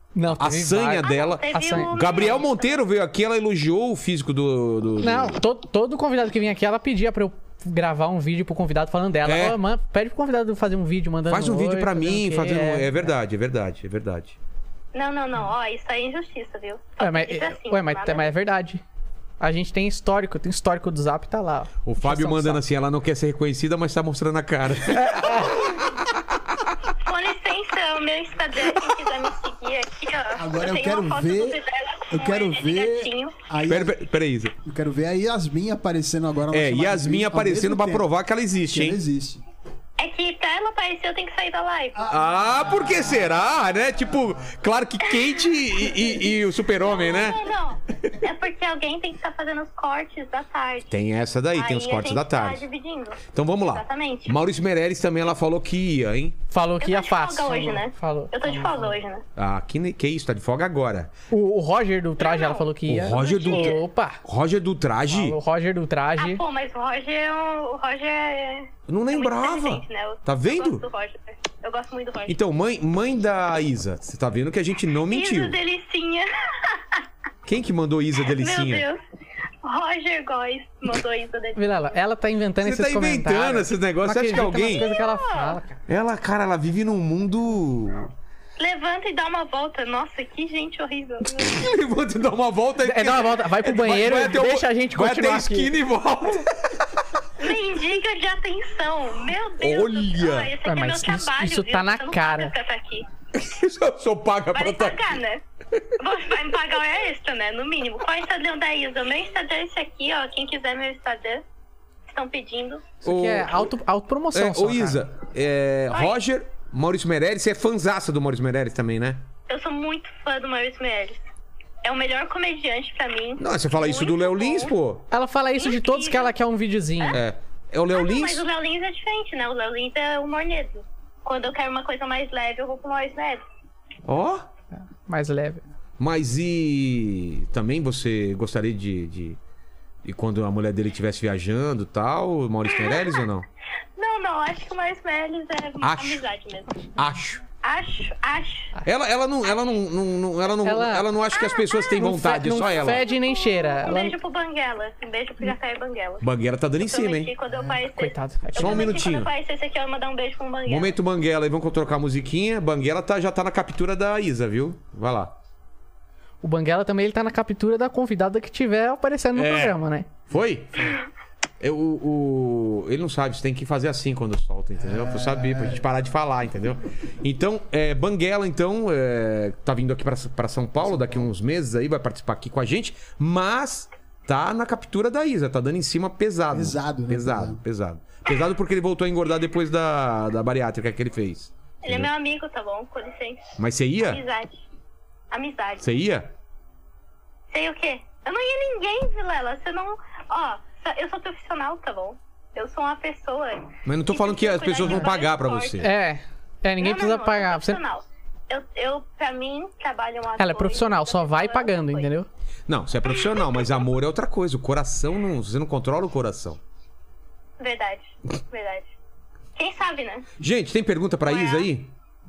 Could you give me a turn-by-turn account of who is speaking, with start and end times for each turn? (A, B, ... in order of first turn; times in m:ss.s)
0:00.1-0:02.0 A
0:00.4-0:05.4 B
0:01.0-0:02.6 C
0:05.0-0:13.1 A
0:09.2-0:09.6 B
0:11.3-0:14.4 B
0:14.9-0:18.3 C
0:17.0-0:18.8 A
0:19.4-0:22.6 A
0:21.8-0:26.0 B
0:24.9-0:25.7 A
0:27.0-0:33.3 C
0:30.3-0:34.0 D
0:33.7-0:34.5 B
0:34.6-0:38.1 D
0:36.5-0:39.0 B
0:38.6-0:39.4 D
0:40.0-0:42.0 C
0:41.9-0:44.6 D
0:42.1-0:48.2 B
0:45.2-0:45.5 C
0:46.8-0:51.0 C
0:50.9-0:52.6 B
0:51.5-0:54.4 C
0:53.3-0:56.4 B
0:56.5-0:58.3 A
0:56.8-0:59.2 C
0:58.4-0:58.9 D
0:59.4-1:01.1 B
1:01.3-1:04.2 A
1:02.2-1:03.8 C
1:02.9-1:05.4 B
1:05.1-1:06.4 A
1:06.2-1:12.4 C
1:08.9-1:10.8 B
1:12.3-1:15.6 B
1:15.1-1:17.0 C
1:17.4-1:18.8 B
1:18.3-1:19.0 C
1:19.6-1:21.6 C
1:21.6-1:25.8 A
1:22.6-1:24.9 B
1:24.7-1:25.6 C
1:25.9-1:28.1 B
1:28.6-1:31.7 C
1:31.4-1:36.7 B
1:32.8-1:35.7 A
1:37.4-1:43.1 C
1:39.6-1:40.5 B
1:40.6-1:42.5 A
1:43.3-1:45.1 B
1:44.5-1:45.4 C
1:46.0-1:51.4 C
1:52.1-1:52.9 C
1:53.0-1:53.7 B
1:53.0-1:55.0 A
1:54.3-1:59.2 B
1:55.9-1:56.2 C
1:59.5-2:01.2 C
2:01.8-2:04.7 C
2:03.4-2:05.0 B
2:05.1-2:07.2 A
2:05.6-2:06.3 C
2:07.1-2:08.4 B
2:07.9-2:13.4 C
2:14.0-2:14.5 B
2:14.9-2:15.6 A
2:16.0-2:19.4 B
2:20.0-2:23.4 B
2:22.7-2:23.2 C
2:24.0-2:26.9 C
2:25.8-2:26.2 B
2:26.9-2:27.4 B
2:27.6-2:28.7 C
2:28.8-2:33.0 B
2:29.4-2:29.8 C
2:30.6-2:31.1 A
2:31.3-2:36.3 C
2:32.0-2:34.1 A
2:36.2-2:37.3 B
2:36.8-2:41.0 C
2:37.4-2:37.8 D
2:37.8-2:38.9 A
2:38.6-2:39.3 B
2:40.7-2:45.4 B
2:46.4-2:50.1 A
2:49.3-2:49.8 B
2:50.3-2:51.0 B
2:51.6-3:12.1 B
2:54.8-2:55.8 D
3:00.8-3:01.3 D
3:06.5-3:07.6 D
3:11.8-3:14.6 C
3:13.6-3:14.2 B
3:15.3-3:15.9 C
3:15.8-3:16.3 B
3:17.5-3:25.9 C
3:23.8-3:25.9 B
3:25.8-3:27.8 A
3:26.8-3:32.1 C
3:30.4-3:32.3 A
3:32.7-3:36.6 B
3:33.1-3:33.8 C
3:37.6-3:38.9 C
3:39.6-3:40.3 C
3:40.4-3:41.9 B
3:41.2-3:41.7 C